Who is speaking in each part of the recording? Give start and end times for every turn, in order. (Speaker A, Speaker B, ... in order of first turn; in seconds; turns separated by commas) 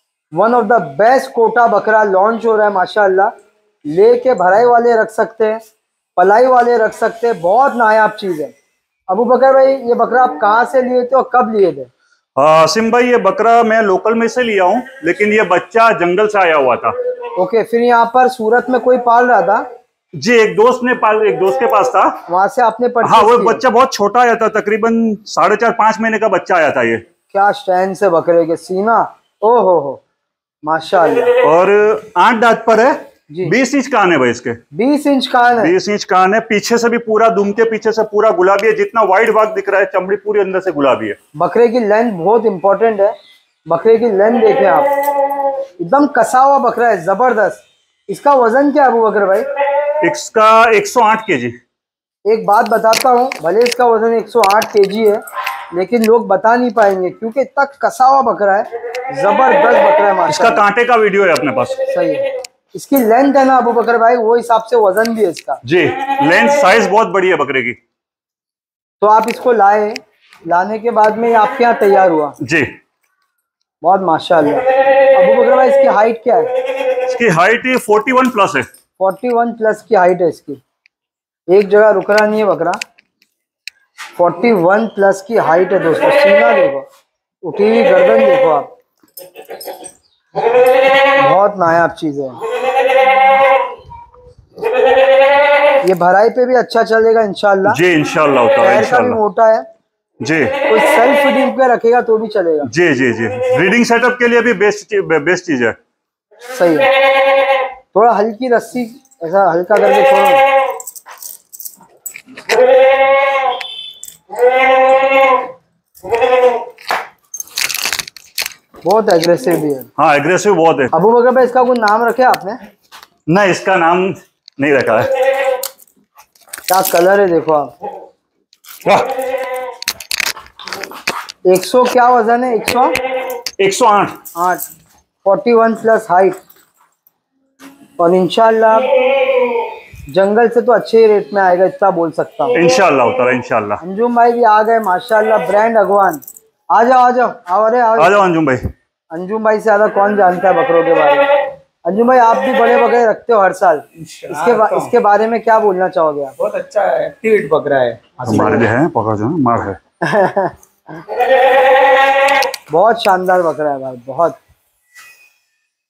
Speaker A: 0.3-3.3, Speaker A: 3.9-5.6, Speaker A: 6.2-8.5, Speaker A: 9.1-11.9, Speaker B: 12.4-16.9, Speaker A: 17.4-19.6, Speaker B: 20.1-22.2, Speaker A: 22.3-23.6, Speaker B: 23.0-27.0, Speaker A: 27.3-30.0, Speaker A: 30.6-31.3, Speaker B: 31.4-34.6, Speaker A: 34.7-35.7, Speaker B: 35.6-41.2, Speaker A: 41.4-43.1, Speaker A: 43.7-44.9, Speaker A: 45.8-49.5, Speaker B: 50.0-51.5, Speaker A: 52.3-55.2, Speaker A: 55.7-60.6, Speaker B: 60.3-61.9, Speaker A: 61.9-65.6, Speaker B: 65.6-67.8, Speaker A: 69.0-72.4, Speaker B: 72.4-72.7, Speaker A: 73.8-76.5, Speaker B: 77.1-78.7, Speaker A: 79.0-80.6, Speaker A: 81.5-82.8, Speaker A: 84.2-86.9, Speaker A: 87.4-88.7, Speaker A: 91.2-92.4, Speaker A: 95.8-97.8, Speaker B: 97.7-99.2, Speaker A: 98.6-99.7, Speaker B: 100.2-100.6, Speaker A: 100.7-102.7, Speaker B: 102.7-105.8, Speaker A: 106.5-106.9, Speaker A: 107.9-110.5, Speaker A: 118.8-119.9, Speaker B: 120.0-120.9, Speaker A: 120.9-122.6, Speaker B: 123.3-125.2, Speaker A: 126.7-127.7, Speaker B: 128.8-129.1, Speaker A: 131.4-132.9, Speaker B: 133.6-134.2, Speaker A: 134.3-134.6, Speaker A: 135.2-136.4, Speaker A: 138.0-138.9, Speaker A: 140.1-142.6, Speaker B: 142.5-143.8, Speaker A: 143.8-148.1, Speaker B: 148.0-148.6, Speaker A: 149.1-151.3, Speaker A: 151.8-156.3, Speaker C: 154.0-154.9, Speaker C: 156.4-158.6, Speaker B: 158.2-159.8, Speaker A: 160.0-161.0, Speaker A: 162.7-164.4